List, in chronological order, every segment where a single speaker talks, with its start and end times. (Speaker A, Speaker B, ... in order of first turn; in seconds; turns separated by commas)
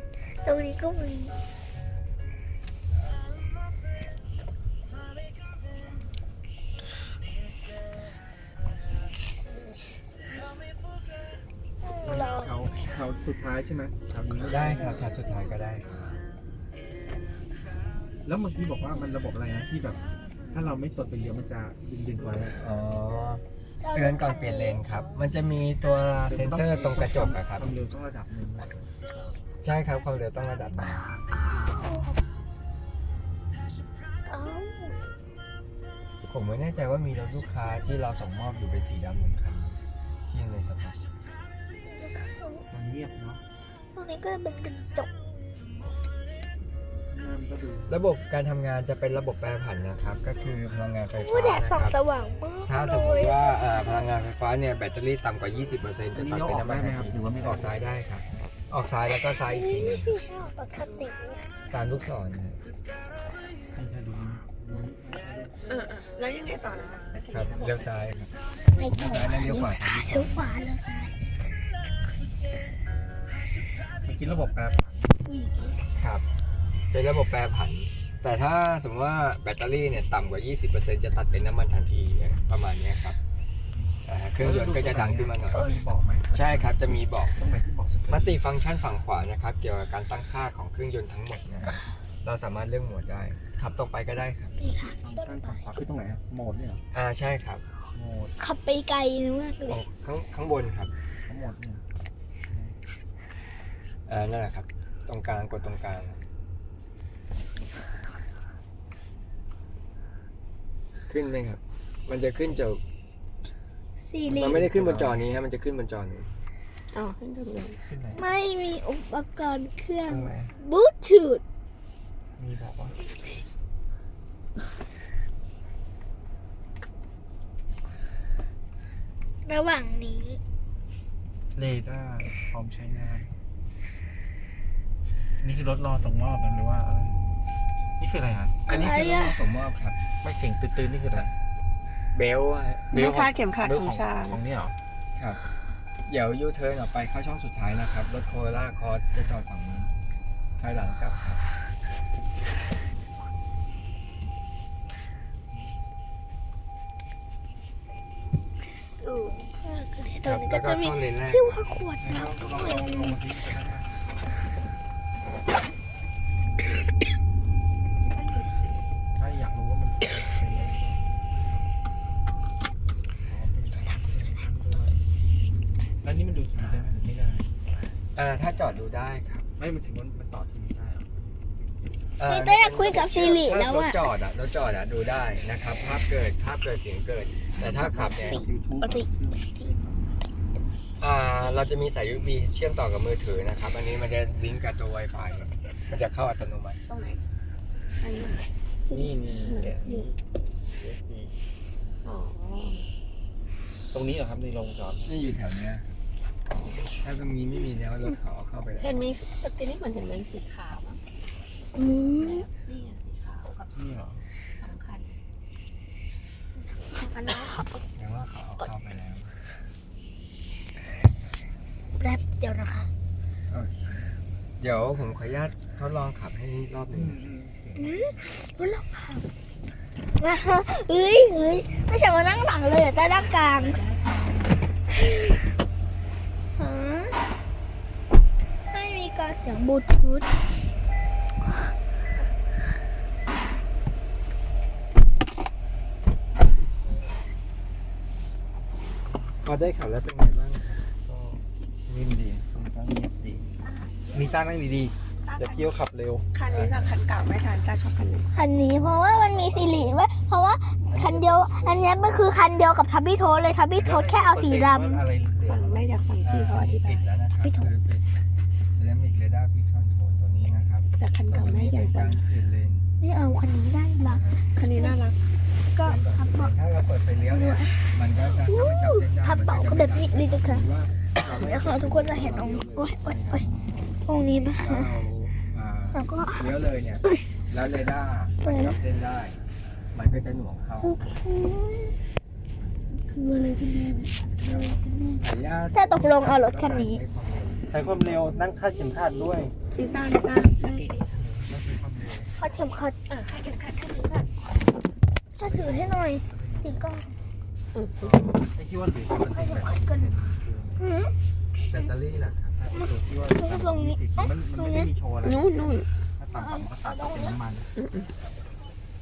Speaker A: 0.4-1.3, Speaker A: 11.8-12.5, Speaker B: 12.0-15.1, Speaker C: 14.4-16.3, Speaker B: 18.2-22.6, Speaker C: 22.5-27.7, Speaker A: 23.8-24.8, Speaker B: 26.2-28.9, Speaker C: 29.6-31.2, Speaker A: 31.7-32.2, Speaker A: 34.3-34.9, Speaker C: 36.2-39.8, Speaker C: 40.3-41.0, Speaker A: 41.9-42.6, Speaker B: 42.7-43.4, Speaker A: 43.9-45.1, Speaker B: 47.1-47.9, Speaker C: 47.9-52.0, Speaker A: 51.1-53.6, Speaker C: 52.7-60.2, Speaker B: 56.1-57.8, Speaker A: 59.4-61.4, Speaker C: 61.7-62.6, Speaker B: 63.7-65.5, Speaker D: 65.7-67.9, Speaker C: 67.3-68.3, Speaker A: 68.8-71.1, Speaker C: 68.9-70.2, Speaker B: 70.0-70.4, Speaker B: 74.0-75.1, Speaker A: 75.2-75.8, Speaker C: 76.0-76.2, Speaker C: 76.9-83.2, Speaker B: 83.7-88.4, Speaker C: 84.0-85.6, Speaker C: 86.3-87.4, Speaker C: 88.1-94.5, Speaker A: 94.6-95.7, Speaker B: 94.9-96.8, Speaker C: 96.9-97.6, Speaker B: 97.9-98.3, Speaker A: 98.4-99.8, Speaker C: 99.7-100.9, Speaker B: 101.3-101.8, Speaker B: 102.5-102.8, Speaker C: 104.1-106.2, Speaker C: 111.1-112.8, Speaker A: 114.0-114.6, Speaker B: 114.2-115.2, Speaker C: 114.3-116.3, Speaker D: 116.9-117.8, Speaker B: 117.8-118.2, Speaker A: 118.1-121.4, Speaker B: 120.1-120.5, Speaker B: 122.4-123.0, Speaker A: 129.4-130.4, Speaker B: 131.5-133.3, Speaker B: 135.4-137.1, Speaker B: 138.0-138.6, Speaker A: 138.7-139.3, Speaker C: 138.7-140.0, Speaker B: 140.2-141.3, Speaker C: 142.1-142.9, Speaker D: 142.9-144.4, Speaker B: 142.9-144.7, Speaker C: 146.1-149.9, Speaker C: 150.6-151.4, Speaker A: 158.7-163.2, Speaker C: 160.2-161.5, Speaker B: 162.0-163.9, Speaker D: 168.0-168.8, Speaker B: 169.2-171.0, Speaker B: 173.3-175.0, Speaker B: 176.0-177.5, Speaker C: 178.1-179.5, Speaker B: 179.6-182.1, Speaker C: 182.2-188.4, Speaker A: 182.2-184.0, Speaker B: 187.6-190.0, Speaker A: 187.8-189.7, Speaker C: 191.0-196.8, Speaker D: 196.9-197.2, Speaker D: 198.0-200.1, Speaker B: 198.9-200.1, Speaker B: 200.8-201.3, Speaker D: 202.0-202.8, Speaker B: 203.9-205.1, Speaker C: 205.0-206.0, Speaker C: 207.0-209.0, Speaker D: 208.8-211.0, Speaker A: 211.7-212.4, Speaker D: 212.1-215.2, Speaker B: 213.7-214.2, Speaker D: 216.9-217.8, Speaker C: 217.9-219.3, Speaker A: 222.0-222.9, Speaker C: 223.5-223.9, Speaker C: 224.6-227.2, Speaker B: 226.9-228.1, Speaker A: 227.8-229.2, Speaker A: 230.2-233.8, Speaker D: 233.1-234.6, Speaker A: 236.5-237.2, Speaker A: 238.7-240.3, Speaker C: 249.4-250.8, Speaker B: 251.1-253.5, Speaker D: 253.6-254.4, Speaker B: 254.1-256.2, Speaker D: 255.2-255.8, Speaker D: 256.3-258.3, Speaker C: 256.5-256.9, Speaker A: 258.3-265.0, Speaker C: 259.0-260.0, Speaker C: 260.9-262.3, Speaker B: 263.8-265.9, Speaker D: 265.4-267.1, Speaker C: 266.2-268.0, Speaker A: 267.4-267.7, Speaker C: 268.7-272.9, Speaker D: 271.0-272.2, Speaker A: 273.0-275.0, Speaker C: 274.0-274.4, Speaker D: 274.5-275.2, Speaker A: 275.7-276.5, Speaker C: 275.8-283.4, Speaker A: 277.3-280.6, Speaker A: 281.2-283.4, Speaker A: 284.0-285.0, Speaker C: 284.5-289.4, Speaker A: 285.9-286.5, Speaker A: 288.4-288.8, Speaker C: 289.9-291.0, Speaker A: 290.8-292.0, Speaker A: 292.9-297.0, Speaker C: 294.4-298.0, Speaker B: 297.7-299.5, Speaker D: 299.7-301.1, Speaker B: 301.1-302.3, Speaker A: 302.4-302.9, Speaker D: 303.1-304.3, Speaker A: 305.3-307.1, Speaker B: 305.4-306.9, Speaker B: 308.0-310.8, Speaker A: 309.1-310.1, Speaker A: 310.8-311.1, Speaker C: 311.7-312.6, Speaker B: 312.6-317.7, Speaker A: 312.8-314.9, Speaker D: 315.2-315.9, Speaker A: 316.3-317.4, Speaker D: 317.8-318.1